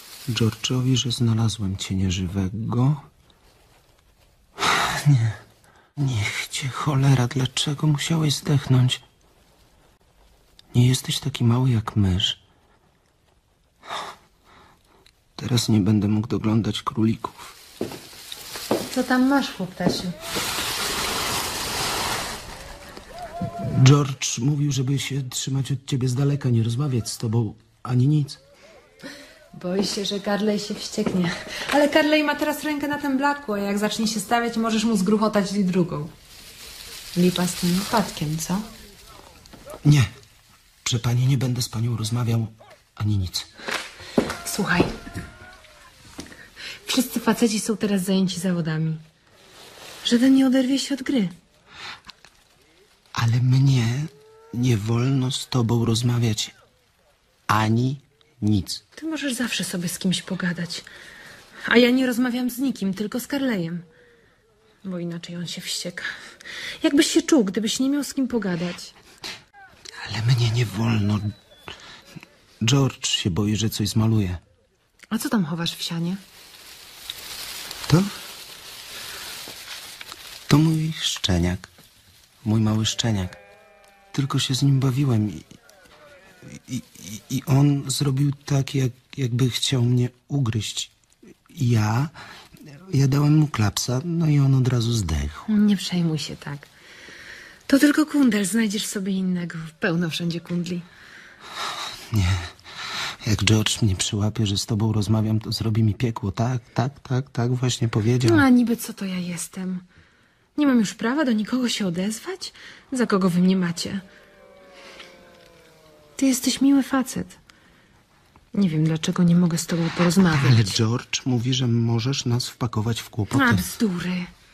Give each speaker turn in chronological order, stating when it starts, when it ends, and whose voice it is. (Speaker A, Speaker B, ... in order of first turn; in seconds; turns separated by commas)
Speaker A: 0.3-3.0, Speaker A: 4.7-5.4, Speaker A: 6.0-9.0, Speaker A: 10.7-12.4, Speaker A: 15.4-17.5, Speaker B: 18.9-20.1, Speaker A: 23.6-28.4, Speaker B: 29.5-36.1, Speaker B: 37.1-38.7, Speaker A: 39.8-40.1, Speaker A: 40.8-43.5, Speaker B: 44.4-44.9, Speaker B: 46.8-49.0, Speaker B: 50.0-51.3, Speaker A: 53.1-56.5, Speaker A: 57.5-58.8, Speaker B: 59.0-60.9, Speaker B: 61.7-63.8, Speaker B: 64.8-66.1, Speaker B: 66.8-68.9, Speaker A: 70.0-71.3, Speaker A: 72.6-74.4, Speaker B: 75.1-76.2, Speaker A: 77.9-78.1, Speaker A: 80.5-81.7, Speaker A: 82.4-83.4, Speaker A: 84.1-85.5, Speaker A: 86.5-90.9, Speaker A: 91.5-92.1, Speaker A: 92.7-95.5, Speaker B: 95.5-96.7, Speaker B: 97.7-100.8, Speaker A: 102.1-102.5, Speaker A: 103.2-108.4, Speaker B: 108.2-109.8, Speaker B: 110.5-114.0, Speaker B: 116.2-117.4, Speaker B: 118.5-120.8, Speaker A: 120.3-123.6, Speaker B: 123.3-124.3